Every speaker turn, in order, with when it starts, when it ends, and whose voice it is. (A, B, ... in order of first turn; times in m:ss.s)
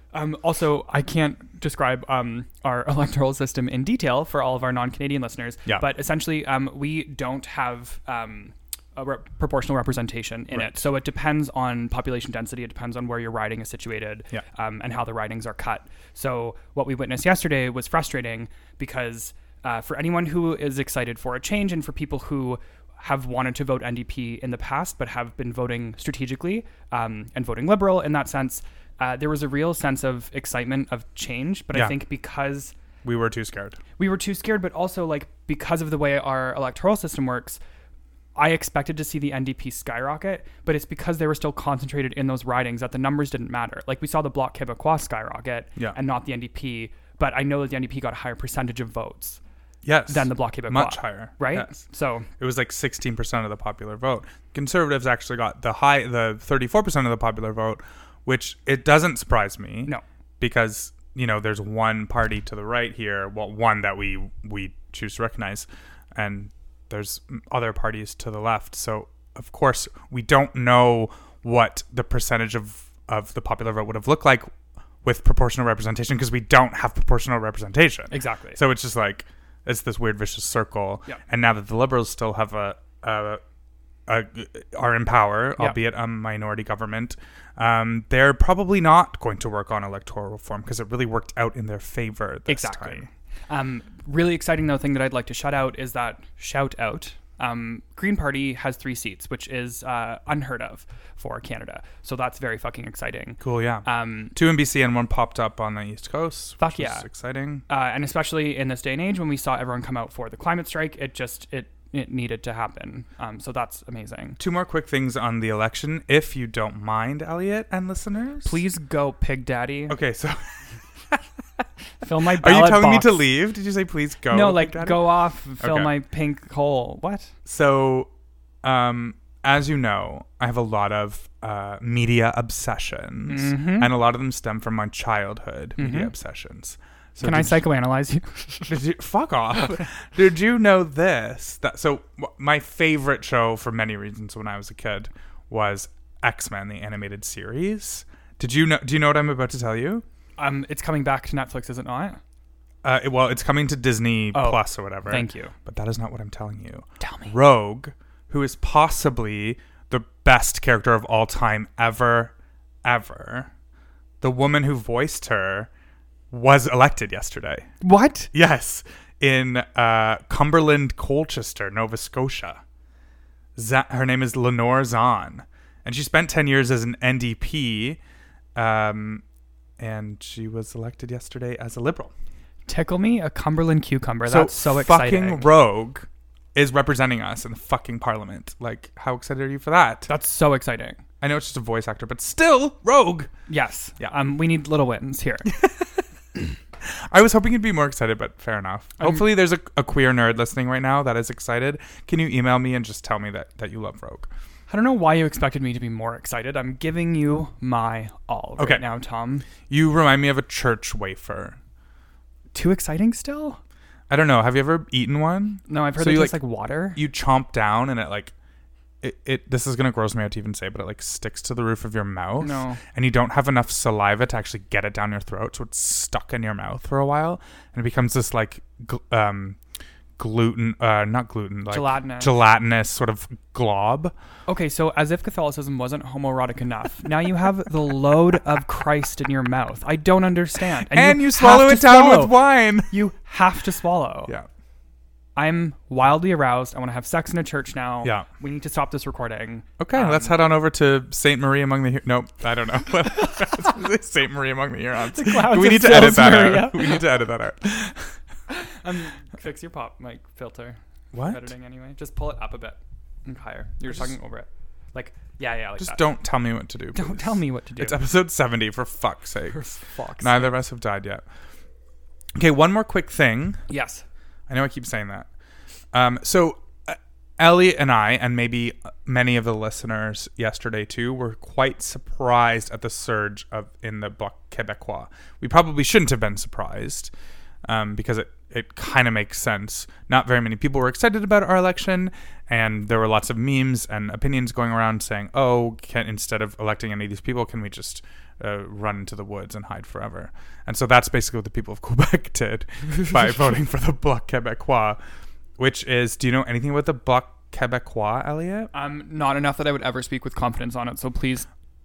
0:00.1-0:32.8 A
0:10.5-0:10.8 B
0:33.0-0:33.8 B
0:34.0-0:37.6 A
0:38.4-0:49.4 A
0:49.8-0:51.8 B
0:50.1-0:52.3 A
0:52.4-1:14.5 B
1:15.0-1:23.4 B
1:18.1-1:18.6 A
1:24.1-1:33.1 B
1:32.5-1:44.4 A
1:43.4-1:47.6 B
1:46.6-1:47.1 A
1:47.7-1:54.4 A
1:54.4-1:58.6 B
1:58.4-2:00.0 A
1:59.9-2:00.4 B
2:02.0-2:03.2 A
2:02.3-2:05.9 B
2:04.3-2:07.3 A
2:07.5-2:08.1 B
2:08.6-2:17.6 B
2:13.3-2:13.9 A
2:15.8-2:16.1 A
2:17.2-2:18.7 A
2:18.7-2:30.0 B
2:30.4-2:32.2 A
2:32.8-2:43.5 B
2:34.3-2:35.5 A
2:37.0-2:37.3 A
2:44.2-2:45.7 B
2:46.3-2:47.7 B
2:47.8-2:48.3 A
2:48.3-2:52.6 B
2:53.6-2:58.0 B
2:58.6-2:59.2 B
2:59.8-3:02.1 B
3:02.7-3:05.5 A
3:04.3-3:10.1 B
3:10.1-3:11.0 A
3:11.2-3:13.3 B
3:13.5-3:15.5 A
3:16.9-3:24.3 B
3:19.0-3:19.2 A
3:24.7-3:29.5 A
3:28.6-3:28.8 B
3:29.7-3:31.6 B
3:32.5-3:33.6 A
3:34.1-3:36.4 B
3:35.7-3:37.0 A
3:36.9-3:38.3 B
3:39.0-3:49.6 B
3:42.4-3:42.8 A
3:50.2-3:54.1 B
3:51.7-3:52.3 A
3:54.5-4:04.3 A
4:00.9-4:03.0 B
4:05.4-4:10.4 A
4:09.8-4:18.2 B
4:15.1-4:17.0 A
4:18.5-4:26.0 A
4:21.1-4:21.5 B
4:25.8-4:31.2 B
4:26.9-4:28.0 A
4:29.5-4:30.5 A
4:32.4-4:33.6 B
4:33.7-4:34.0 A
4:34.5-4:35.3 B
4:35.9-4:47.1 B
4:47.7-5:05.0 B
5:05.6-5:08.7 B
5:08.7-5:11.5 A